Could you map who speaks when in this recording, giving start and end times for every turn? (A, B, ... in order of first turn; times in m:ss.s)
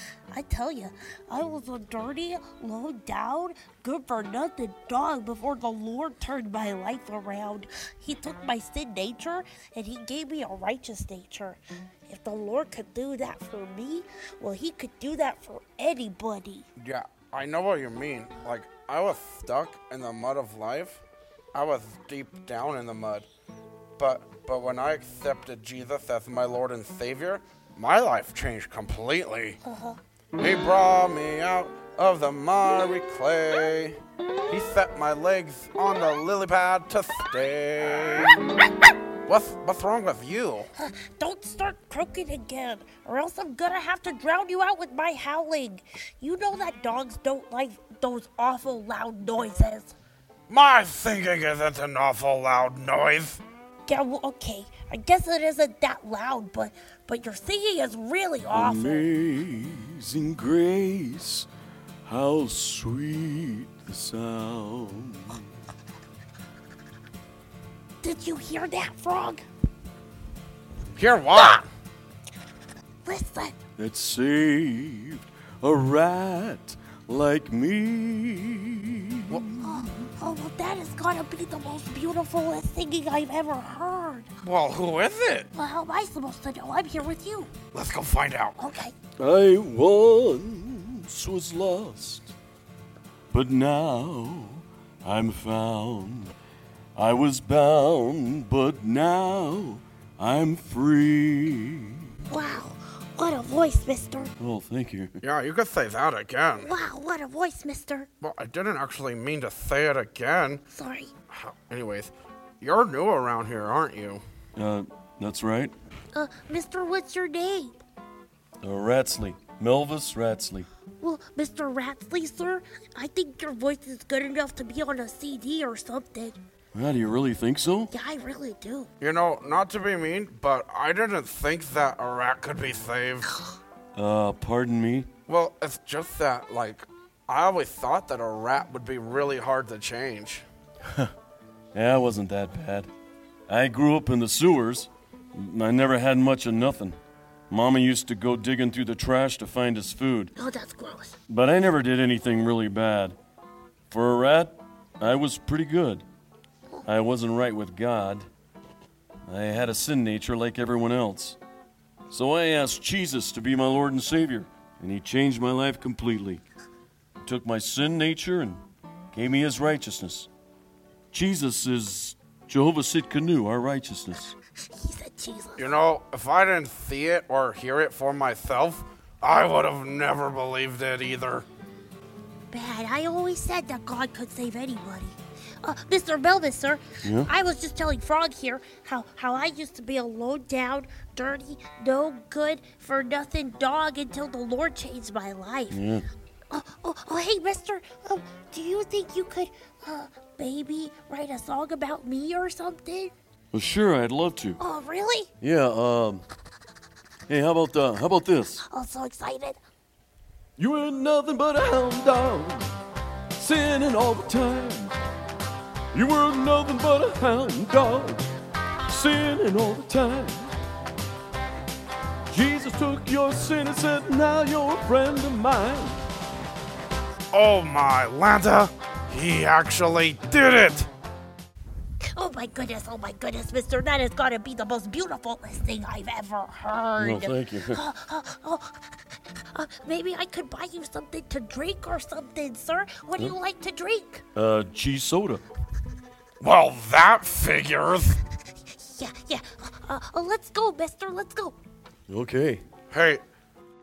0:00.3-0:16.6 A
0:16.8-0:21.0 B
0:21.5-0:23.3 B
0:24.0-0:29.6 B
0:29.6-0:30.0 A
0:30.4-0:34.0 B
0:34.5-0:38.4 B
0:39.2-0:40.7 B
0:40.8-0:50.0 A
0:50.5-0:53.4 B
0:53.8-0:59.1 A
0:58.5-1:01.5 C
1:02.0-1:05.4 C
1:08.0-1:09.4 A
1:11.0-1:11.6 B
1:13.0-1:13.6 A
1:13.8-1:19.8 C
1:19.6-1:24.3 A
1:24.4-1:25.5 B
1:25.5-1:27.5 A
1:27.7-1:28.6 B
1:28.6-1:28.9 A
1:29.2-1:32.3 C
1:33.3-1:36.3 C
1:37.0-1:42.1 C
1:42.3-1:44.3 A
1:44.4-1:45.2 C
1:45.2-1:46.7 B
1:46.6-1:48.1 A
1:48.2-1:50.6 B
1:50.7-1:51.1 A
1:51.3-1:54.2 B
1:54.6-1:55.7 C
1:56.1-1:57.8 A
1:58.6-2:00.7 C
2:01.0-2:06.4 A
2:06.7-2:07.9 C
2:07.9-2:08.9 A
2:09.0-2:13.3 B
2:13.9-2:15.1 C
2:15.3-2:20.4 B
2:21.7-2:22.9 C
2:23.5-2:27.0 C
2:27.5-2:30.3 C
2:30.3-2:31.2 A
2:31.3-2:33.2 C
2:33.9-2:36.0 C
2:36.8-2:38.3 C
2:39.3-2:41.4 C
2:42.1-2:46.4 C
2:47.2-2:50.3 C
2:51.1-2:54.4 C
2:54.7-2:55.7 A
2:55.6-3:01.4 B
3:02.5-3:15.8 A
3:07.0-3:07.3 C
3:15.7-3:16.0 C
3:16.5-3:23.1 A
3:23.5-3:24.6 C
3:24.6-3:25.3 A
3:25.4-3:26.2 C
3:27.3-3:28.6 C
3:28.6-3:29.6 A
3:30.6-3:32.7 C
3:33.3-3:34.9 C
3:35.9-3:38.2 C
3:38.9-3:40.5 C
3:42.3-3:46.0 C
3:47.3-3:50.9 B
3:52.1-4:04.2 A
3:57.0-3:57.8 C
4:04.3-4:05.4 C
4:06.4-4:08.2 B
4:08.8-4:11.6 A
4:12.1-4:12.6 C
4:12.9-4:13.2 B